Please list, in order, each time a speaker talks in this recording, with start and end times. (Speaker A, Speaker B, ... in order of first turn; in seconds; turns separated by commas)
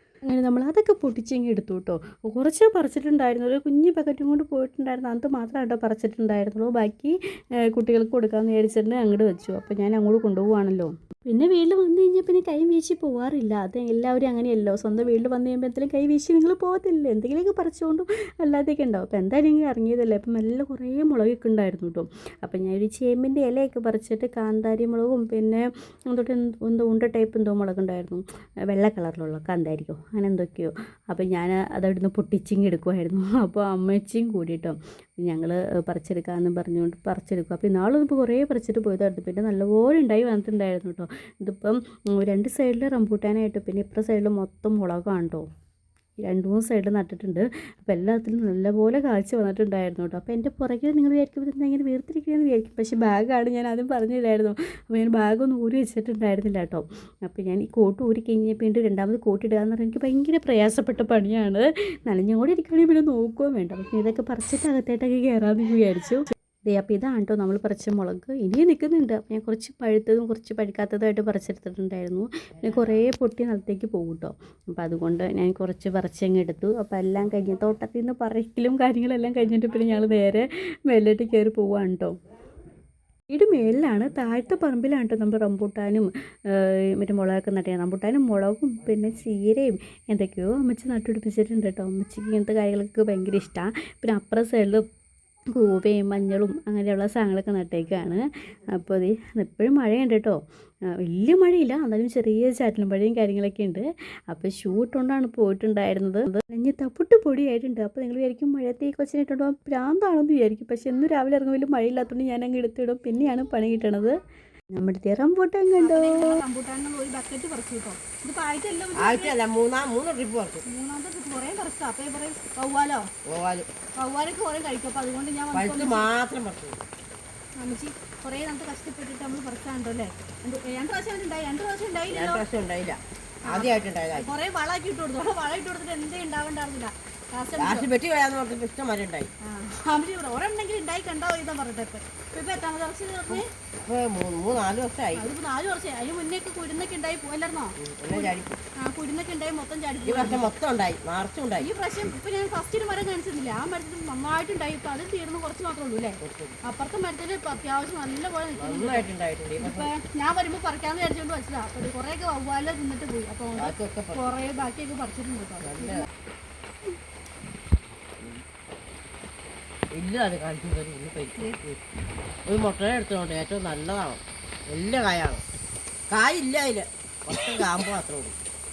Speaker A: 0.3-45.5, Speaker A: 46.2-82.1, Speaker A: 83.3-94.8, Speaker A: 95.5-100.4, Speaker A: 101.0-114.1, Speaker A: 114.7-116.4, Speaker B: 115.8-119.3, Speaker C: 119.0-120.6, Speaker B: 120.7-123.1, Speaker C: 123.2-123.7, Speaker B: 124.0-126.1, Speaker C: 125.5-126.8, Speaker B: 127.6-132.4, Speaker C: 132.1-134.3, Speaker B: 133.5-137.9, Speaker C: 137.6-139.3, Speaker B: 139.4-143.5, Speaker C: 143.3-145.3, Speaker B: 145.1-150.5, Speaker C: 147.8-148.6, Speaker C: 150.0-151.7, Speaker B: 151.6-166.1, Speaker C: 156.2-156.6, Speaker C: 158.6-159.9, Speaker C: 163.5-164.3, Speaker C: 165.6-166.1, Speaker C: 169.9-171.8, Speaker C: 172.4-175.4, Speaker C: 176.1-178.3